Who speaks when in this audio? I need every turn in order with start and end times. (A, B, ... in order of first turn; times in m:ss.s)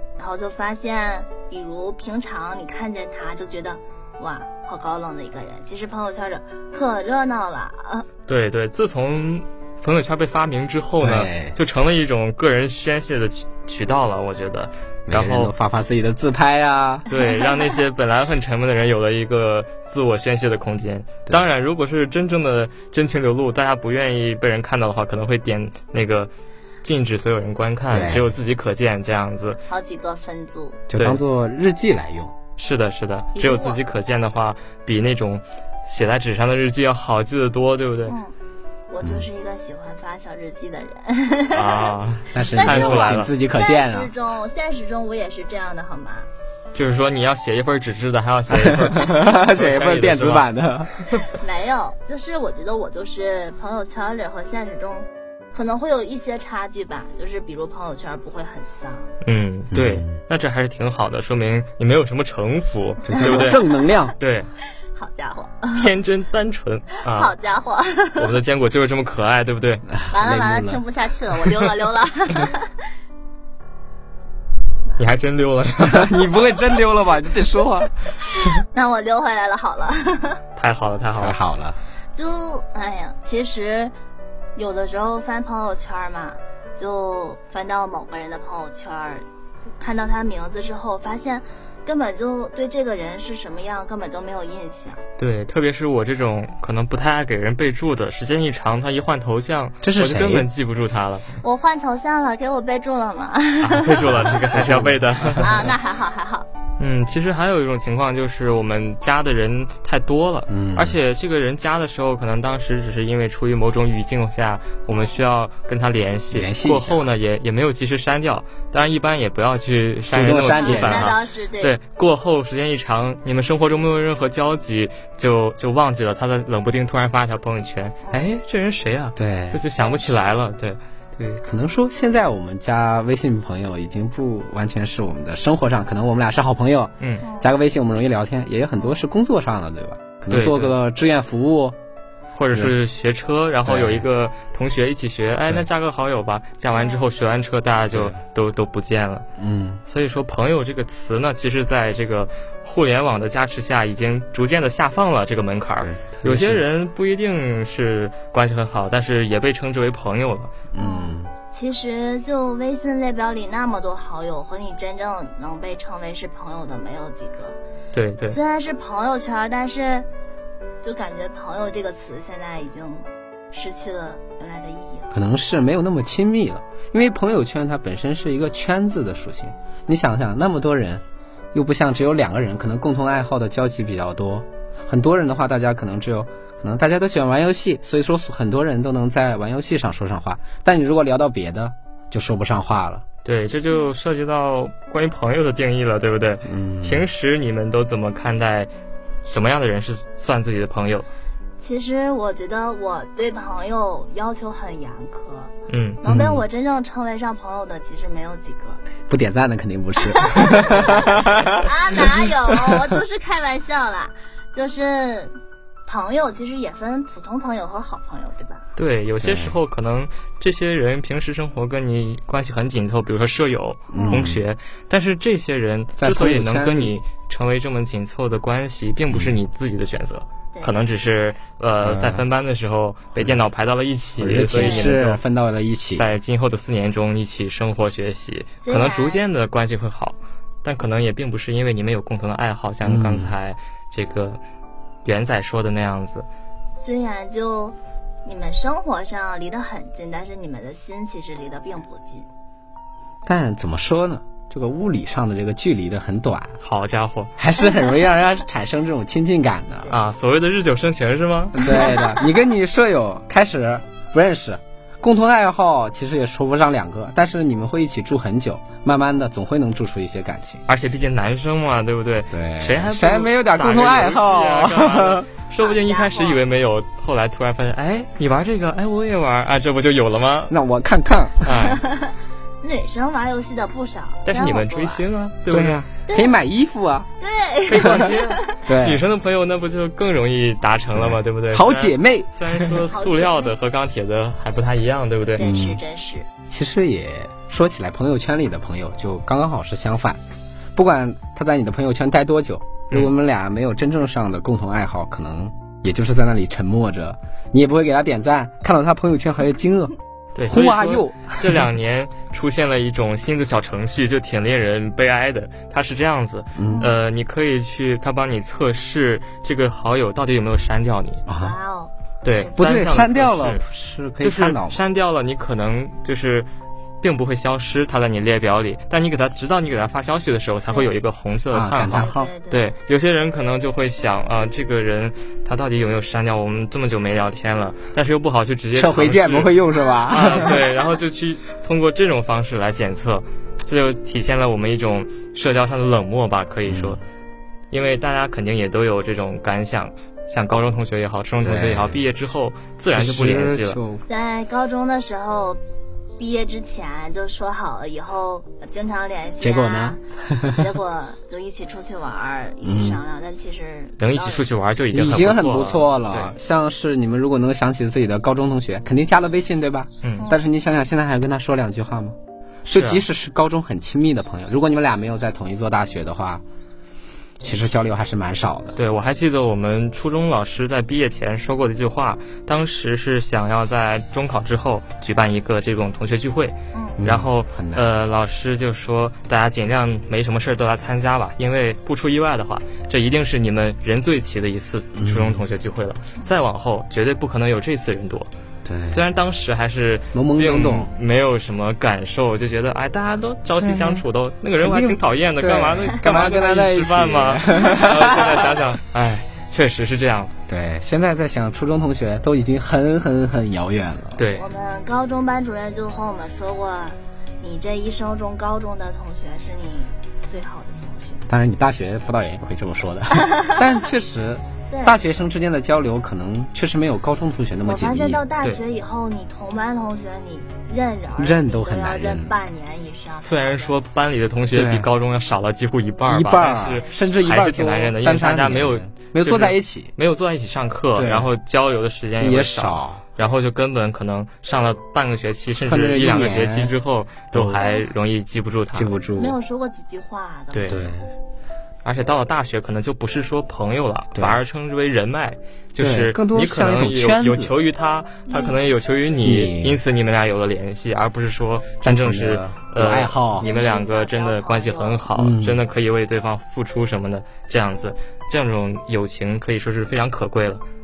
0:00.2-0:08.1 A
0:08.3-0:15.5 B
0:11.0-0:11.6 C
0:15.1-0:17.1 C
0:17.1-0:26.3 B
0:26.8-0:29.6 B
0:27.9-0:28.3 C
0:29.7-0:30.8 A
0:30.9-0:32.3 C
0:31.0-0:31.2 B
0:32.6-0:38.2 B
0:33.4-0:33.8 A
0:38.1-0:38.3 A
0:38.9-0:41.9 A
0:41.5-0:43.3 B
0:42.3-0:44.1 C
0:42.5-0:46.3 A
0:46.7-0:50.5 B
0:48.5-0:50.9 C
0:51.4-0:59.1 A
0:59.2-1:03.6 B
0:59.7-1:00.2 C
1:03.1-1:04.1 C
1:04.2-1:04.5 B
1:04.9-1:05.9 A
1:05.8-1:07.3 B
1:07.1-1:08.3 A
1:08.2-1:09.9 B
1:10.0-1:10.8 C
1:10.1-1:12.7 A
1:15.0-1:16.3 B
1:15.8-1:17.9 C
1:18.7-1:20.4 A
1:20.6-1:21.4 B
1:21.2-1:21.8 C
1:22.2-1:23.9 A
1:24.6-1:29.2 A
1:29.8-1:35.0 A
1:35.2-1:41.3 B
1:39.8-1:40.5 C
1:41.4-1:44.4 A
1:43.6-1:45.6 B
1:44.5-1:45.5 C
1:45.4-1:46.5 A
1:46.8-2:10.8 B
1:50.5-1:51.0 C
1:56.3-1:57.1 C
2:00.1-2:01.1 C
2:00.5-2:01.8 A
2:09.2-2:09.6 C
2:11.2-2:21.8 C
2:17.2-2:17.5 A
2:20.3-2:20.8 B
2:22.3-2:29.3 B
2:23.6-2:24.1 C
2:26.8-2:27.0 A
2:29.4-2:29.8 C
2:29.9-2:40.5 B
2:35.8-2:36.6 C
2:40.7-2:41.3 C
2:40.8-2:47.6 A
2:47.9-2:48.4 B
2:48.3-2:50.1 A
2:50.8-2:55.1 A
2:55.1-3:13.0 C
3:13.2-3:18.7 B
3:16.4-3:17.1 C
3:19.2-3:21.1 B
3:21.6-3:28.8 A
3:25.7-3:26.0 B
3:26.0-3:26.4 C
3:29.1-3:31.7 C
3:30.2-3:35.3 A
3:32.5-3:32.8 C
3:35.9-3:38.6 A
3:38.8-3:55.2 B
3:39.2-3:39.6 C
3:43.9-3:44.4 C
3:44.0-3:44.2 A
3:46.0-3:46.9 C
3:49.1-3:49.4 C
3:51.8-3:52.2 C
3:54.2-3:56.1 C
3:54.6-3:54.9 A
3:56.0-4:04.4 B
3:58.6-3:59.2 A
4:02.8-4:03.3 C
4:05.0-4:06.3 B
4:06.8-4:12.3 A
4:13.2-4:16.6 C
4:16.6-4:17.3 B
4:17.4-4:19.9 C
4:19.9-4:21.7 B
4:21.6-4:30.6 C
4:30.7-4:40.5 B
4:32.3-4:35.3 C
4:35.6-4:36.4 A
4:40.5-4:41.5 C
4:41.4-4:41.8 B
4:41.7-4:45.0 A
4:44.3-4:45.8 B
4:45.5-4:47.1 C
4:46.1-4:46.3 A
4:47.2-4:48.4 A
4:47.7-4:55.4 B
4:47.8-4:48.1 C
4:48.7-4:49.0 C
4:50.9-4:52.8 C
4:52.9-4:53.5 A
4:55.4-4:56.3 A
4:55.4-4:55.8 C
4:56.5-5:00.2 C
5:00.8-5:09.9 C
5:10.4-5:21.2 B
5:10.5-5:11.6 C
5:16.6-5:16.9 C
5:21.3-5:21.6 C
5:21.4-5:22.6 A
5:22.2-5:23.6 B
5:22.6-5:24.8 C
5:24.2-5:26.5 B
5:27.0-5:39.6 B
5:31.5-5:32.3 C
5:31.9-5:32.7 A
5:38.7-5:40.6 C
5:39.7-5:40.6 A
5:40.1-5:47.0 B
5:46.7-5:47.0 C
5:47.7-5:53.8 B
5:51.4-5:52.0 C
5:52.9-5:54.0 C
5:54.1-5:55.6 A
5:56.2-6:00.0 A
5:59.4-6:00.6 C
6:00.5-6:04.5 A
6:02.6-6:03.0 C
6:04.0-6:06.3 B
6:04.9-6:16.4 C
6:12.7-6:13.0 B
6:17.4-6:18.8 C
6:18.8-6:38.3 B
6:26.7-6:27.0 A
6:27.0-6:27.9 C
6:35.0-6:35.4 C
6:38.6-6:39.0 C
6:38.9-6:50.3 B
6:40.1-6:40.9 C
6:43.6-6:44.0 C
6:44.6-6:48.6 C
6:50.5-6:54.2 C
6:54.2-6:54.5 B
6:54.4-7:01.2 A
7:01.3-7:08.2 C
7:04.7-7:05.0 A
7:07.6-7:13.7 A
7:11.2-7:12.4 C
7:13.2-7:28.9 B
7:14.5-7:14.9 C
7:16.1-7:19.9 C
7:21.0-7:21.3 C
7:22.2-7:23.0 C
7:25.6-7:26.7 C
7:27.3-7:27.7 C
7:28.7-7:29.4 C
7:29.2-7:30.8 A
7:30.5-7:30.8 B
7:30.7-7:31.1 C
7:31.8-7:50.6 B
7:35.8-7:37.5 C
7:38.3-7:38.6 A
7:39.2-7:39.8 C
7:41.8-7:43.5 C
7:43.4-7:45.0 A
7:45.1-7:45.6 C